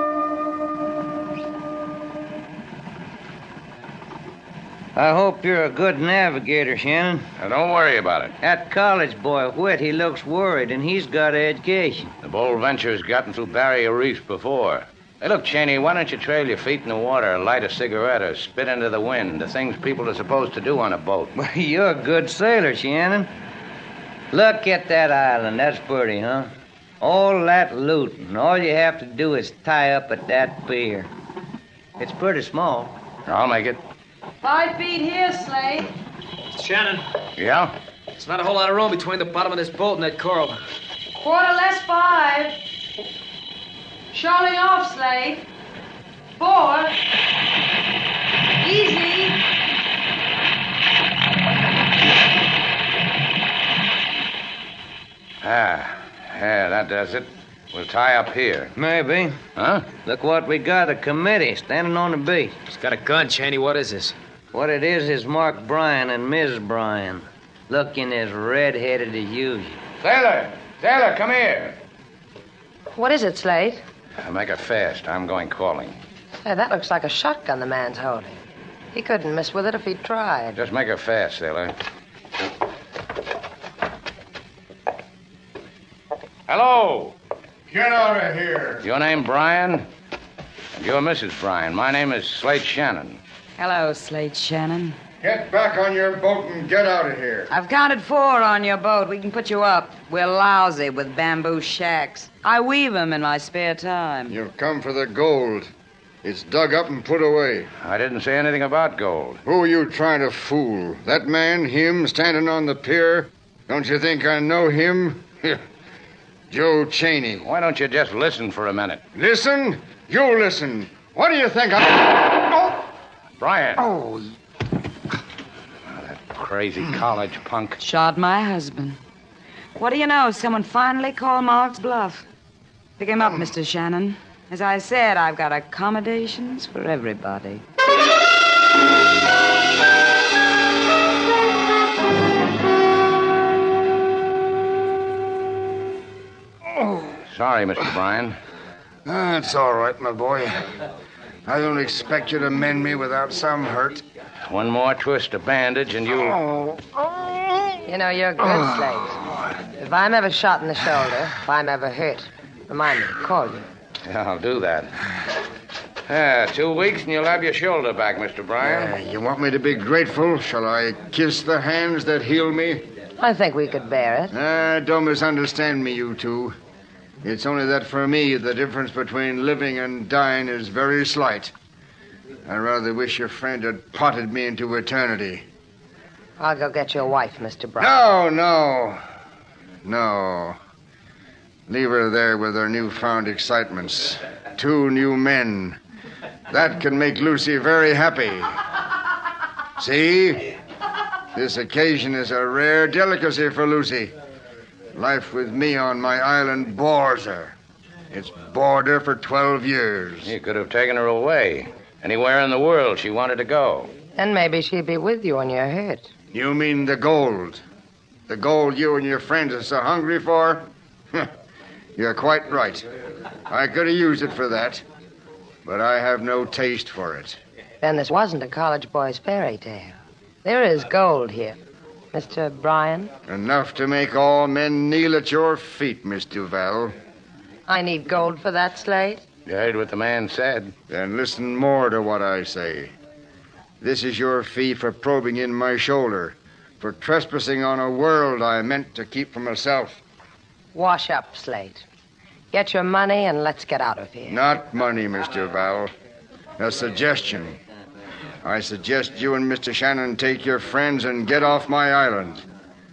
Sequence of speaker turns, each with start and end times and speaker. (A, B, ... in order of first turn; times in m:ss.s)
0:05.0-0:07.3 A
0:07.4-0:08.4 B
0:08.4-0:12.1 A
0:12.2-0:21.3 B
0:21.4-0:23.3 A
0:24.3-0:26.5 A
0:27.0-0:31.1 A
0:32.0-0:33.0 A
0:33.3-0:33.8 B
0:34.4-0:35.9 C
0:36.5-0:37.1 D
0:37.4-0:37.8 B
0:38.2-0:40.6 D
0:41.2-0:42.6 C
0:44.1-0:45.4 C
0:46.4-0:46.9 C
0:48.6-0:49.4 C
0:55.4-0:58.7 B
0:58.8-0:59.4 A
0:59.6-0:59.9 B
1:00.0-1:02.6 A
1:02.7-1:04.2 D
1:04.5-1:09.8 A
1:10.0-1:11.8 B
1:13.0-1:13.8 C
1:14.2-1:16.0 B
1:16.4-1:18.4 C
1:18.9-1:20.6 C
1:20.6-1:21.8 B
1:26.5-1:27.2 B
1:27.7-1:28.8 E
1:28.8-1:29.9 B
1:30.8-1:33.2 B
1:33.6-1:35.0 F
1:35.2-1:37.5 E
1:37.5-1:44.4 F
1:44.3-1:45.7 E
1:46.2-1:47.7 E
1:47.8-1:49.4 B
1:49.5-1:55.6 E
1:56.5-1:57.5 E
1:57.4-1:59.0 B
1:59.1-2:02.8 E
2:03.4-2:03.8 B
2:03.8-2:04.2 E
2:05.9-2:07.8 B
2:07.8-2:09.0 F
2:09.8-2:12.2 F
2:13.0-2:17.6 F
2:27.3-2:28.4 B
2:29.1-2:30.7 E
2:31.5-2:34.0 E
2:34.5-2:36.4 B
2:36.4-2:37.4 E
2:37.9-2:39.2 C
2:39.7-2:43.6 C
2:44.0-2:44.9 B
2:46.1-2:48.9 B
2:48.6-2:52.8 E
2:53.2-2:54.3 C
2:54.3-2:56.6 E
2:57.2-3:01.5 E
3:02.5-3:05.4 E
3:06.4-3:08.0 C
3:07.8-3:09.0 E
3:09.8-3:10.6 E
3:11.7-3:15.8 E
3:16.5-3:18.6 E
3:19.8-3:20.5 E
3:21.3-3:24.1 E
3:24.9-3:27.5 E
3:28.1-3:30.3 E
3:30.2-3:33.9 B
3:34.2-3:36.1 C
3:36.3-3:37.6 E
3:38.3-3:41.3 E
3:42.0-3:42.9 E
3:43.5-3:44.8 E
3:45.6-3:47.4 E
3:47.8-3:51.6 C
3:52.1-3:53.1 C
3:53.3-3:57.0 E
3:57.7-3:59.2 C
3:59.5-4:00.7 B
4:00.9-4:02.9 E
4:03.8-4:10.0 E
4:10.7-4:11.8 C
4:12.5-4:14.4 C
4:14.3-4:15.9 E
4:16.6-4:17.6 E
4:18.4-4:22.4 E